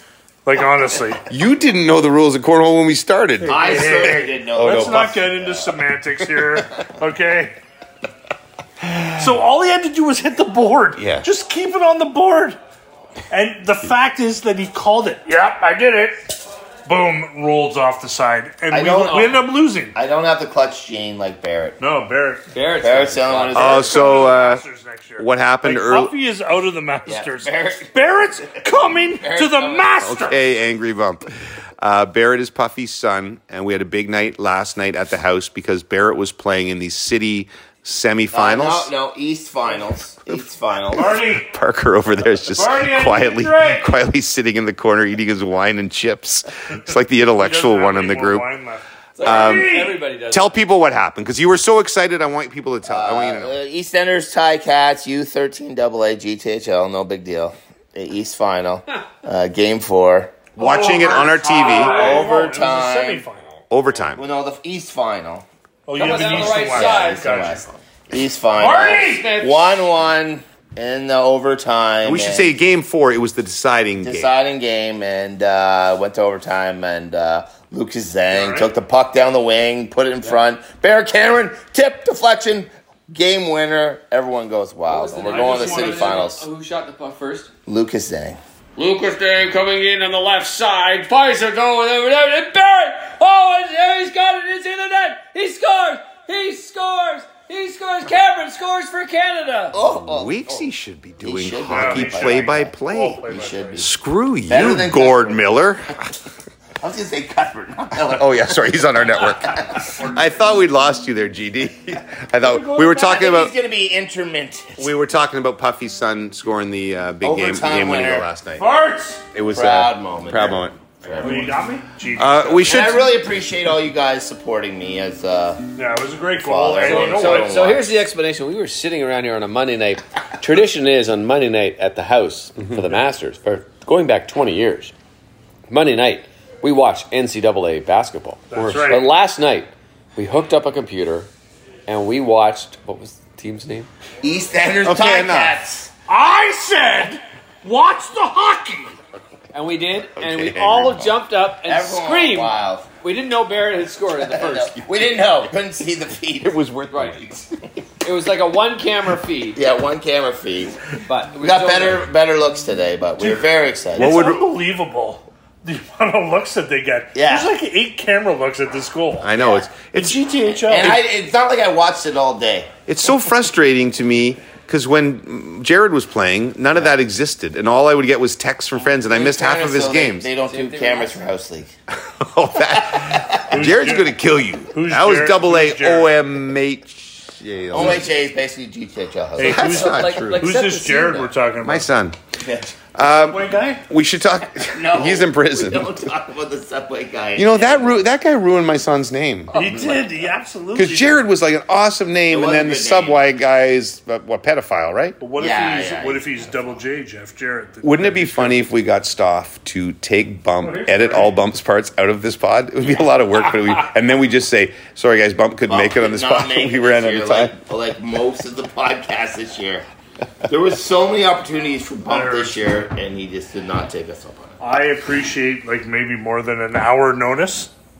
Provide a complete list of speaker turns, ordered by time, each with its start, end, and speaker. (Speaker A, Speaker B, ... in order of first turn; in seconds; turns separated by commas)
Speaker A: 0.4-1.2, Speaker B: 1.3-5.3, Speaker A: 3.4-7.5, Speaker C: 3.5-5.6, Speaker A: 8.8-12.6, Speaker B: 10.9-11.3, Speaker A: 13.3-19.9, Speaker C: 18.7-19.4, Speaker D: 19.1-19.3, Speaker C: 19.9-21.8, Speaker A: 21.8-22.5, Speaker D: 22.5-23.9, Speaker C: 22.8-24.4, Speaker A: 23.5-30.4, Speaker B: 23.5-24.6, Speaker B: 25.2-26.1, Speaker C: 27.1-27.9, Speaker C: 29.2-30.1, Speaker B: 30.0-31.2, Speaker B: 31.8-38.9, Speaker C: 38.3-41.2, Speaker A: 40.9-41.5, Speaker B: 41.4-48.5, Speaker A: 42.5-44.0, Speaker A: 47.4-50.0, Speaker D: 49.1-50.6, Speaker B: 49.2-53.6, Speaker C: 52.9-60.5, Speaker B: 60.5-62.0, Speaker A: 60.6-63.4, Speaker C: 61.5-63.2, Speaker D: 61.6-62.3, Speaker B: 63.7-64.2, Speaker C: 64.2-65.4, Speaker A: 65.9-67.7, Speaker D: 65.9-67.5, Speaker C: 66.0-72.5, Speaker A: 68.5-69.2, Speaker D: 68.6-69.8, Speaker B: 72.0-74.3, Speaker C: 74.0-86.4, Speaker A: 78.3-78.7, Speaker D: 84.9-87.5, Speaker A: 85.2-86.3, Speaker C: 87.7-88.4, Speaker D: 88.8-99.8, Speaker C: 99.7-100.4, Speaker B: 99.8-103.2, Speaker C: 101.2-102.7, Speaker A: 101.7-103.9, Speaker C: 103.2-103.9, Speaker B: 103.8-106.0, Speaker C: 104.5-105.4, Speaker C: 106.8-109.9, Speaker B: 108.0-113.5, Speaker A: 109.8-110.4, Speaker A: 112.4-113.0, Speaker C: 112.8-114.9, Speaker B: 114.8-118.7, Speaker C: 117.2-118.3, Speaker A: 118.6-119.2, Speaker B: 119.3-121.3, Speaker C: 119.5-121.6, Speaker A: 121.2-123.0, Speaker B: 122.1-123.1, Speaker C: 122.6-125.6, Speaker A: 125.7-127.6, Speaker C: 126.4-128.0, Speaker D: 126.8-134.9, Speaker D: 135.7-141.3, Speaker A: 138.5-139.1, Speaker D: 141.9-143.9, Speaker C: 144.2-145.9, Speaker B: 144.8-145.6, Speaker A: 146.1-148.9, Speaker D: 149.5-154.8, Speaker B: 150.2-151.2, Speaker C: 151.6-152.9, Speaker C: 154.2-156.6, Speaker B: 154.8-155.5, Speaker B: 156.4-157.5, Speaker D: 156.9-157.2, Speaker D: 158.0-159.6, Speaker C: 159.6-160.8, Speaker D: 161.0-162.1, Speaker C: 161.4-164.4, Speaker A: 163.9-169.3, Speaker B: 163.9-164.5, Speaker C: 167.1-167.5, Speaker B: 169.2-170.2, Speaker C: 169.3-169.6, Speaker A: 169.9-171.0, Speaker C: 170.6-172.7, Speaker B: 172.9-180.3, Speaker C: 179.0-181.7, Speaker D: 180.4-181.2, Speaker B: 182.0-188.1, Speaker C: 183.1-183.4, Speaker A: 183.5-184.2, Speaker A: 184.7-186.1, Speaker C: 187.7-190.1, Speaker A: 189.4-191.9, Speaker D: 189.4-191.3, Speaker B: 189.4-190.4, Speaker B: 191.6-192.2, Speaker C: 192.4-192.7, Speaker B: 192.9-196.0, Speaker A: 193.0-193.8, Speaker C: 194.7-198.0, Speaker B: 197.3-199.8, Speaker A: 199.5-201.2, Speaker B: 200.7-205.2, Speaker C: 202.3-203.2, Speaker A: 205.2-208.7, Speaker C: 205.4-206.7, Speaker B: 207.8-217.6, Speaker A: 210.6-211.3, Speaker C: 215.7-219.8, Speaker C: 220.5-224.6, Speaker A: 222.1-222.9, Speaker A: 224.6-227.7